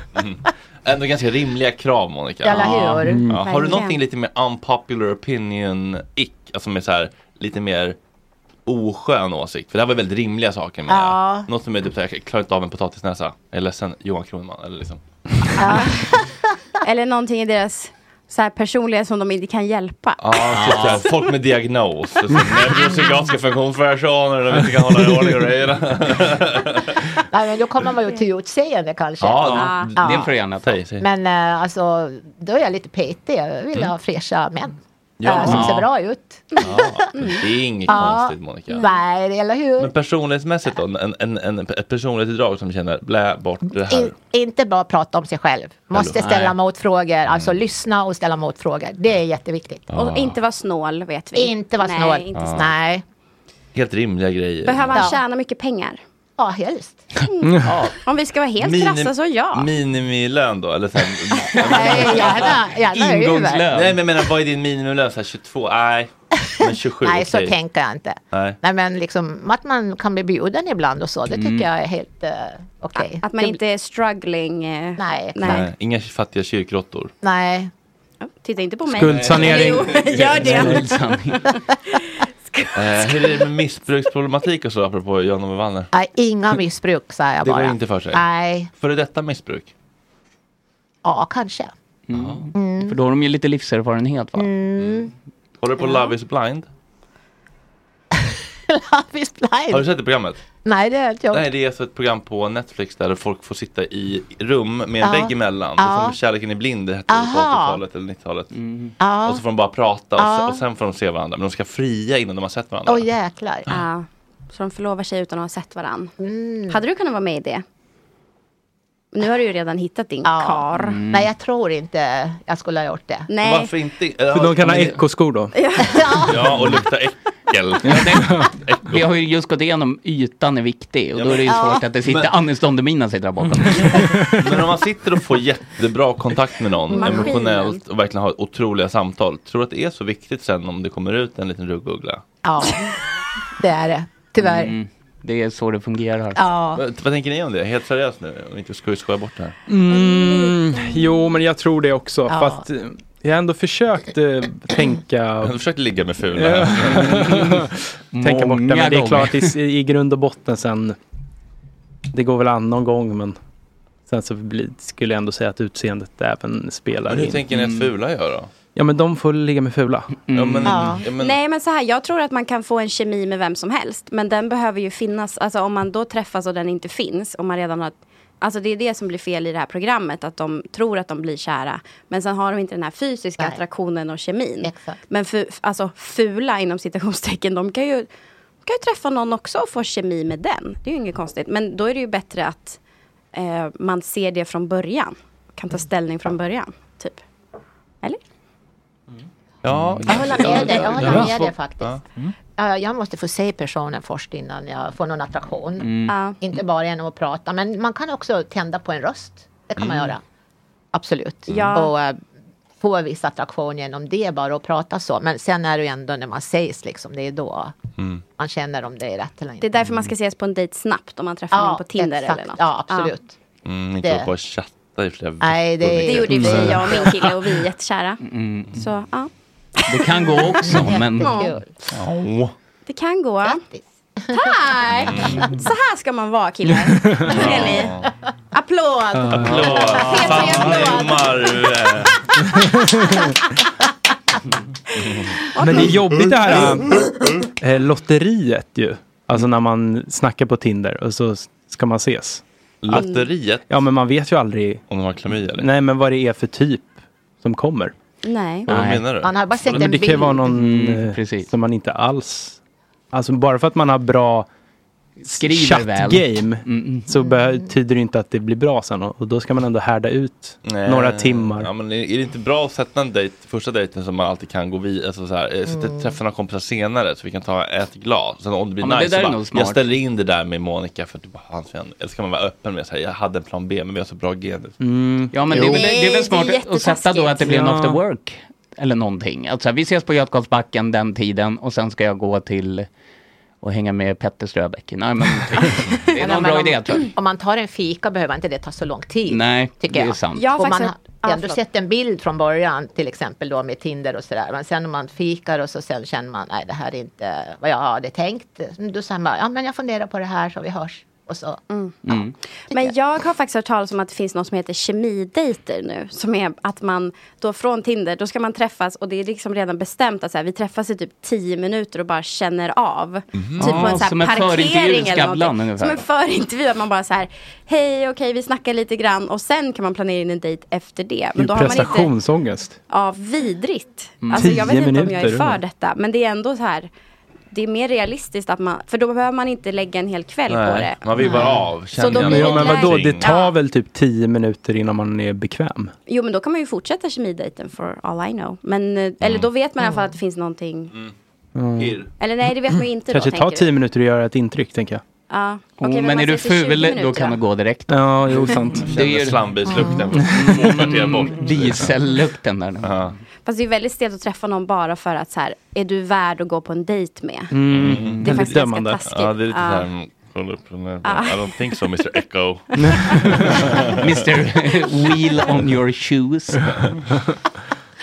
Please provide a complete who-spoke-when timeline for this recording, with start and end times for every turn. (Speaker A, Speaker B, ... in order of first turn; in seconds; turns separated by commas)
Speaker A: 0.1-8.0, Speaker B: 2.4-3.3, Speaker C: 3.0-3.4, Speaker D: 3.4-4.0, Speaker A: 8.7-15.9, Speaker B: 10.9-11.5, Speaker B: 15.6-16.3, Speaker D: 16.8-20.2, Speaker A: 20.2-27.0, Speaker E: 20.5-21.1, Speaker B: 27.3-30.3, Speaker A: 29.2-31.1, Speaker E: 29.6-30.8, Speaker D: 29.6-29.9, Speaker B: 31.0-37.0, Speaker A: 35.2-35.9, Speaker E: 35.4-35.9, Speaker A: 36.6-38.9, Speaker D: 37.2-38.0, Speaker B: 37.9-39.9, Speaker D: 38.7-39.0, Speaker A: 39.8-44.1, Speaker B: 43.7-49.9, Speaker A: 45.9-46.5, Speaker A: 47.3-47.6, Speaker A: 49.9-50.4, Speaker D: 49.9-52.7, Speaker B: 51.3-53.0, Speaker A: 52.3-52.7, Speaker A: 53.7-55.1, Speaker D: 54.6-56.0, Speaker B: 54.9-55.2, Speaker B: 56.4-57.0, Speaker D: 57.2-59.7, Speaker A: 58.6-62.6, Speaker B: 61.5-63.7, Speaker E: 61.9-64.0, Speaker A: 63.7-67.6, Speaker B: 66.5-73.6, Speaker A: 68.3-68.6, Speaker E: 71.3-71.7, Speaker D: 73.0-75.6, Speaker B: 75.0-75.7, Speaker A: 75.4-77.1, Speaker B: 77.2-77.7, Speaker D: 78.2-80.9, Speaker C: 78.9-79.9, Speaker A: 79.0-80.8, Speaker E: 80.4-81.4, Speaker D: 82.5-83.4, Speaker A: 82.7-85.9, Speaker B: 85.9-88.7, Speaker A: 87.4-88.2, Speaker A: 88.8-89.7, Speaker B: 91.0-91.7, Speaker E: 92.1-94.5, Speaker A: 92.1-92.5, Speaker B: 92.5-93.0, Speaker B: 94.3-95.1, Speaker A: 94.8-95.0, Speaker A: 95.6-96.7, Speaker B: 95.8-96.1, Speaker B: 98.7-99.8, Speaker A: 99.7-100.4, Speaker B: 100.6-101.5, Speaker A: 101.3-108.6, Speaker B: 105.0-106.2, Speaker B: 107.1-107.8, Speaker E: 108.5-108.9, Speaker B: 109.0-109.4, Speaker A: 109.2-113.1, Speaker B: 110.2-110.6, Speaker B: 112.8-113.7, Speaker D: 113.7-116.1, Speaker B: 116.2-116.8, Speaker D: 116.7-117.6, Speaker D: 119.1-121.0, Speaker B: 120.2-123.3, Speaker E: 120.7-121.3, Speaker D: 123.3-123.7, Speaker A: 123.4-125.0, Speaker C: 124.3-125.5, Speaker D: 125.5-125.9, Speaker B: 125.8-126.8, Speaker A: 126.2-129.0, Speaker E: 127.9-128.3, Speaker C: 128.0-128.5, Speaker E: 128.8-134.1, Speaker A: 131.1-132.3, Speaker B: 131.5-131.8, Speaker A: 133.6-142.2, Speaker C: 133.9-134.4, Speaker D: 136.9-137.8, Speaker B: 137.0-137.2, Speaker B: 142.4-142.9, Speaker B: 143.6-144.7, Speaker E: 144.4-146.4, Speaker B: 146.3-146.8, Speaker A: 146.7-149.6, Speaker C: 149.7-155.6, Speaker B: 152.3-152.6, Speaker A: 155.4-157.6, Speaker C: 156.3-160.9, Speaker E: 157.0-157.6, Speaker E: 158.1-159.6, Speaker C: 162.1-163.4, Speaker C: 164.1-167.4, Speaker A: 167.1-168.5, Speaker E: 167.5-167.9, Speaker C: 168.7-170.2, Speaker E: 170.3-170.8, Speaker A: 170.3-171.4, Speaker B: 170.6-171.1, Speaker D: 171.2-188.1, Speaker B: 184.6-185.0, Speaker D: 188.6-192.8, Speaker D: 193.3-197.2, Speaker A: 199.6-202.0, Speaker B: 200.0-202.0, Speaker B: 202.6-210.2, Speaker E: 205.8-206.2, Speaker D: 206.1-206.4, Speaker A: 209.8-210.1, Speaker B: 210.9-212.2, Speaker A: 211.5-211.8, Speaker D: 211.5-211.9, Speaker B: 212.8-217.7, Speaker A: 218.0-218.2, Speaker B: 218.4-219.7, Speaker D: 219.6-223.1, Speaker B: 221.5-223.3, Speaker A: 223.6-227.3, Speaker B: 224.0-224.3, Speaker B: 225.4-227.3, Speaker D: 226.1-228.2, Speaker E: 228.2-228.8, Speaker D: 228.7-229.3, Speaker E: 229.9-231.4, Speaker D: 229.9-231.6, Speaker B: 230.6-231.7, Speaker A: 231.9-232.5, Speaker D: 232.9-233.6, Speaker B: 233.4-234.5, Speaker D: 234.3-238.0, Speaker A: 234.9-235.5, Speaker A: 237.2-238.1, Speaker D: 238.5-241.1, Speaker A: 239.2-242.2, Speaker B: 239.2-241.6, Speaker A: 245.0-245.3, Speaker D: 245.5-245.9, Speaker C: 245.6-247.0, Speaker C: 247.6-252.4, Speaker A: 252.8-253.7, Speaker D: 252.9-253.2, Speaker C: 253.7-254.8, Speaker A: 254.9-255.7, Speaker C: 255.6-257.9, Speaker D: 258.2-258.7, Speaker E: 258.7-259.1, Speaker A: 258.7-259.9, Speaker B: 259.1-260.6, Speaker C: 259.7-262.6, Speaker E: 260.5-261.5, Speaker C: 263.1-264.5, Speaker E: 265.3-267.1, Speaker C: 265.3-271.7, Speaker B: 267.1-267.7, Speaker A: 270.6-284.8, Speaker B: 275.6-276.2, Speaker E: 278.8-279.8, Speaker C: 284.8-285.8, Speaker E: 285.3-292.9, Speaker D: 285.5-287.6, Speaker C: 287.4-288.0, Speaker E: 293.6-297.1, Speaker B: 296.2-311.6, Speaker E: 299.3-300.6, Speaker D: 300.3-301.6, Speaker D: 311.7-312.0, Speaker E: 312.0-312.3, Speaker D: 312.7-332.1, Speaker A: 323.3-324.0, Speaker E: 323.6-326.0, Speaker C: 331.4-332.8, Speaker D: 332.9-336.9, Speaker E: 334.2-334.6, Speaker C: 334.3-335.6, Speaker D: 337.5-341.2, Speaker A: 340.5-343.4, Speaker B: 341.2-341.6, Speaker D: 341.9-343.5, Speaker C: 342.0-345.9, Speaker D: 346.1-350.9, Speaker A: 349.2-349.5, Speaker B: 349.8-350.1, Speaker C: 351.5-352.1, Speaker A: 351.8-352.1, Speaker D: 352.2-353.7, Speaker C: 353.1-355.0, Speaker D: 355.3-357.4, Speaker E: 355.8-359.5, Speaker C: 357.9-358.9, Speaker A: 358.8-362.0, Speaker B: 359.6-360.0, Speaker C: 359.9-360.8, Speaker E: 360.3-363.1, Speaker A: 362.8-363.1, Speaker D: 363.4-367.5, Speaker C: 367.5-369.0, Speaker A: 367.7-374.1, Speaker E: 367.8-368.3, Speaker D: 368.2-369.9, Speaker D: 371.0-371.5, Speaker C: 373.0-373.4, Speaker E: 374.0-376.6, Speaker A: 376.7-376.9